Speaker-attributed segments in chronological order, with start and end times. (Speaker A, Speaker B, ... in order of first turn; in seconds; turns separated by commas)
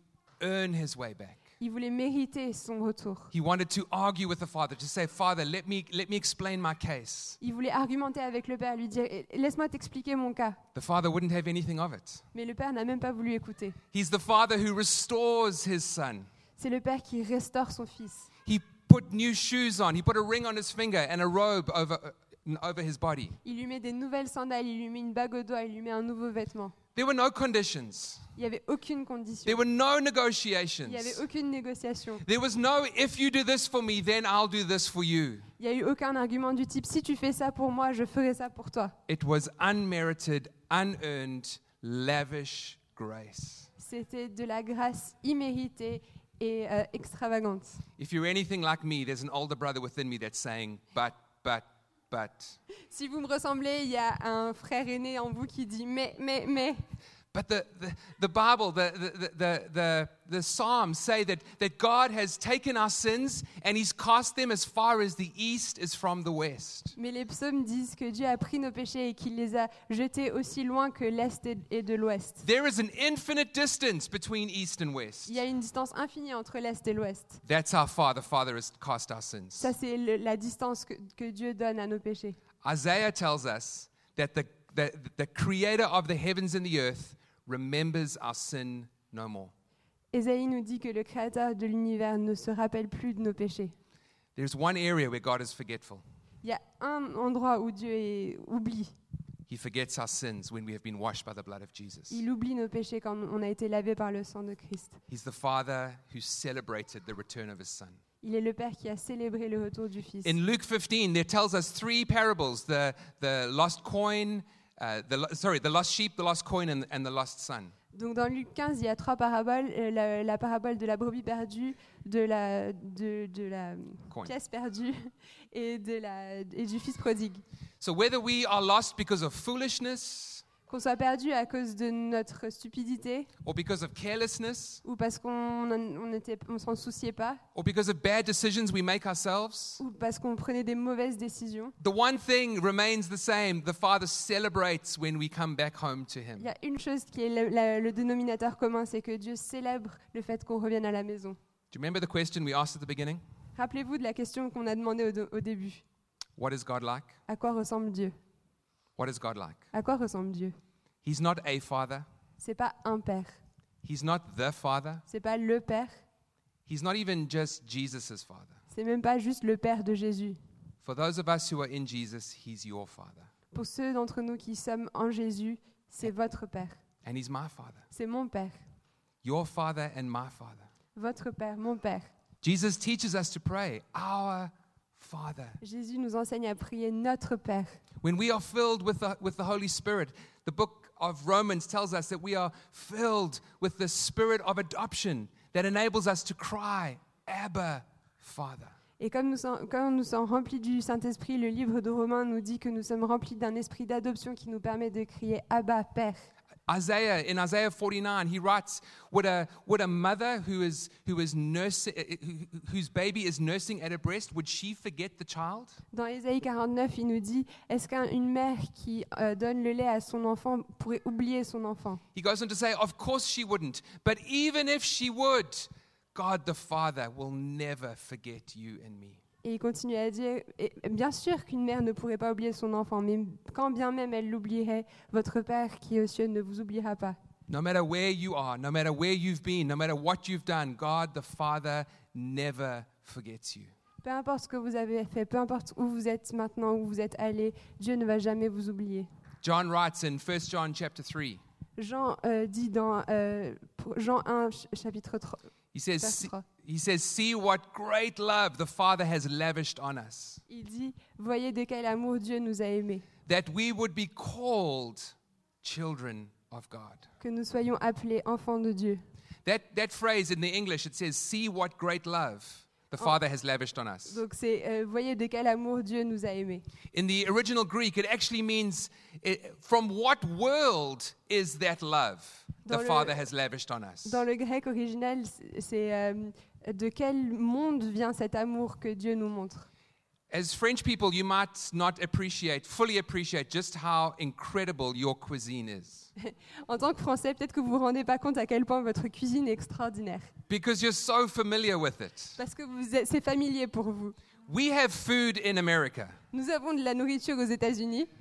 Speaker A: 0.4-1.4, Speaker B: 1.6-3.3, Speaker A: 3.3-7.4, Speaker B: 7.4-10.6, Speaker A: 10.8-12.2, Speaker B: 12.3-13.8, Speaker A: 13.9-16.3, Speaker B: 16.6-18.3, Speaker A: 18.5-23.4, Speaker B: 23.4-26.8, Speaker A: 26.9-28.3, Speaker B: 28.4-29.6, Speaker A: 29.5-31.2, Speaker B: 30.9-32.2, Speaker A: 32.2-35.5, Speaker B: 35.6-39.0, Speaker A: 39.1-43.7, Speaker B: 43.8-47.8, Speaker A: 48.0-52.6, Speaker B: 52.9-56.8, Speaker A: 57.3-67.0, Speaker B: 67.0-72.5, Speaker A: 72.4-75.4, Speaker B: 75.3-77.4, Speaker A: 77.5-79.7, Speaker B: 79.6-82.4, Speaker A: 82.6-89.5, Speaker B: 90.1-93.8, Speaker A: 94.4-96.0, Speaker B: 96.4-98.9, Speaker A: 99.5-102.2, Speaker B: 102.1-105.0, Speaker A: 105.1-108.0, Speaker B: 108.2-110.4, Speaker A: 110.2-117.8, Speaker B: 117.9-127.4, Speaker A: 127.8-130.4, Speaker B: 130.7-133.3, Speaker A: 133.4-134.8, Speaker B: 134.8-137.4, Speaker A: 137.6-139.8, Speaker B: 139.8-141.8, Speaker A: 141.8-146.5, Speaker B: 146.4-151.4, Speaker A: 151.7-153.2, Speaker B: 153.6-155.8, Speaker A: 156.4-157.2, Speaker B: 157.3-158.2, Speaker A: 159.0-159.7, Speaker B: 159.7-160.6, Speaker A: 161.0-162.1, Speaker B: 162.4-163.4, Speaker A: 163.8-165.1, Speaker B: 165.1-166.0, Speaker A: 166.7-168.6, Speaker B: 168.7-170.4, Speaker A: 170.8-173.3, Speaker B: 173.5-176.8, Speaker A: 177.0-177.9, Speaker B: 177.9-178.6, Speaker A: 179.2-180.7, Speaker B: 180.9-182.1, Speaker A: 182.4-185.6, Speaker B: 185.6-187.8, Speaker A: 188.0-198.8, Speaker B: 199.0-206.3, Speaker A: 206.7-215.8, Speaker B: 215.9-222.0, Speaker A: 222.1-229.2, Speaker B: 229.4-237.2, Speaker A: 237.5-243.7, Speaker B: 244.0-249.1, Speaker A: 249.4-251.4, Speaker B: 251.8-255.4, Speaker A: 255.7-260.4, Speaker B: 256.0-256.4, Speaker B: 260.5-263.1, Speaker A: 263.3-267.1, Speaker B: 267.2-269.0, Speaker A: 269.4-274.2, Speaker B: 274.1-276.6, Speaker A: 276.9-284.2, Speaker B: 282.7-283.2, Speaker B: 284.1-289.7, Speaker A: 290.3-296.1, Speaker B: 296.2-300.3, Speaker A: 300.5-302.4, Speaker B: 302.4-304.2, Speaker A: 304.5-306.2, Speaker B: 306.3-308.1